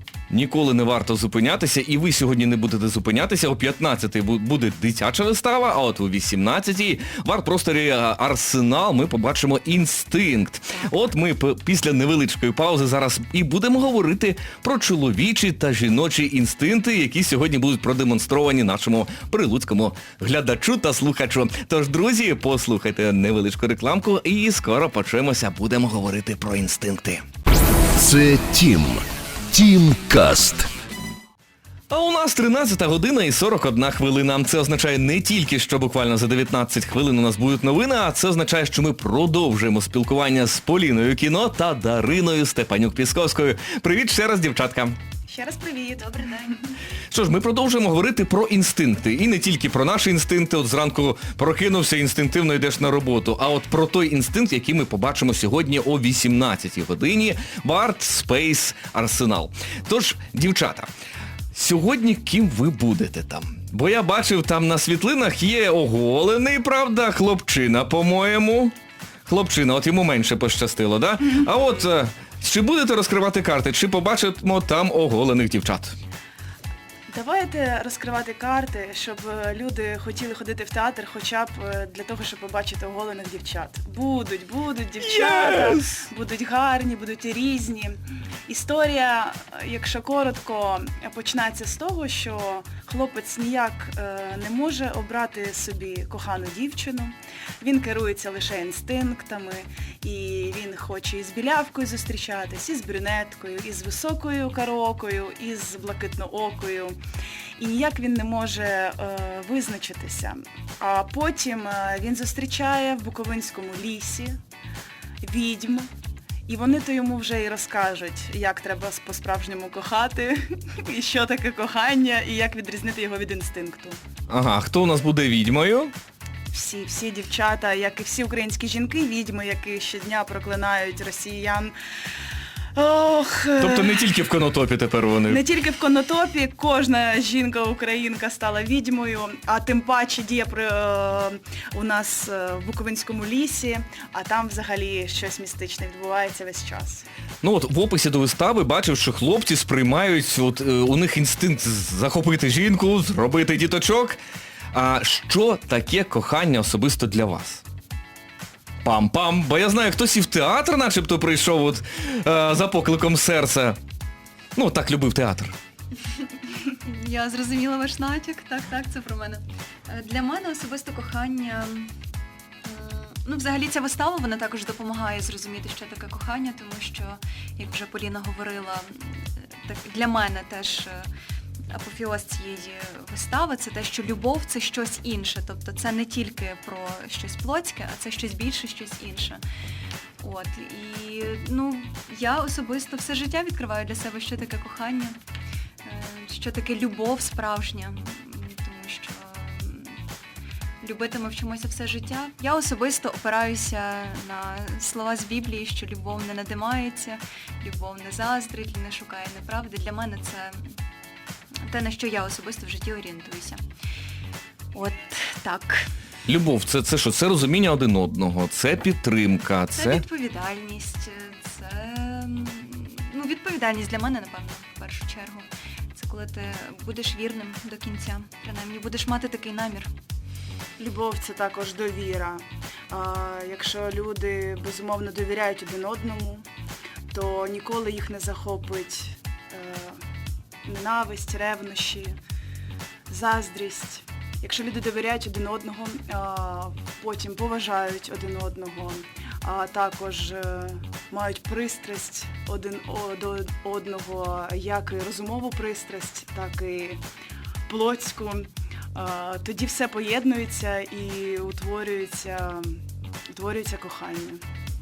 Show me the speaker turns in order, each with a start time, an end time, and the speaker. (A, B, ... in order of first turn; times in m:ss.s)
0:00.3-0:27.2 A
0:28.0-0:30.7 B
0:31.9-0:45.0 A
0:45.3-0:46.1 C
0:46.0-0:46.7 D
0:47.1-1:00.9 A
1:01.5-1:08.7 A
1:09.3-1:15.9 A
1:17.1-1:47.0 C
1:25.0-1:25.9 A
1:47.6-1:54.4 C
1:55.2-1:55.9 C
1:56.5-2:04.0 C
2:04.3-2:05.9 A
2:06.5-2:11.7 C
2:12.7-2:14.1 C
2:13.6-2:15.4 A
2:15.3-2:27.0 C
2:27.4-2:34.2 A
2:34.7-2:37.6 A
2:38.8-2:43.8 A
2:44.5-2:45.6 A
2:46.5-2:51.9 D
2:52.6-3:01.1 D
3:01.7-3:09.4 D
3:10.2-3:15.2 D
3:15.8-3:20.0 D
3:20.8-3:30.7 D
3:31.6-3:33.6 D
3:34.7-3:35.9 D
3:36.2-3:40.0 A
3:39.7-3:49.9 D
3:50.8-3:56.4 C
3:57.1-4:00.0 C
4:00.6-4:02.2 C
4:03.1-4:17.0 C
4:17.7-4:22.8 C
4:23.3-4:24.4 C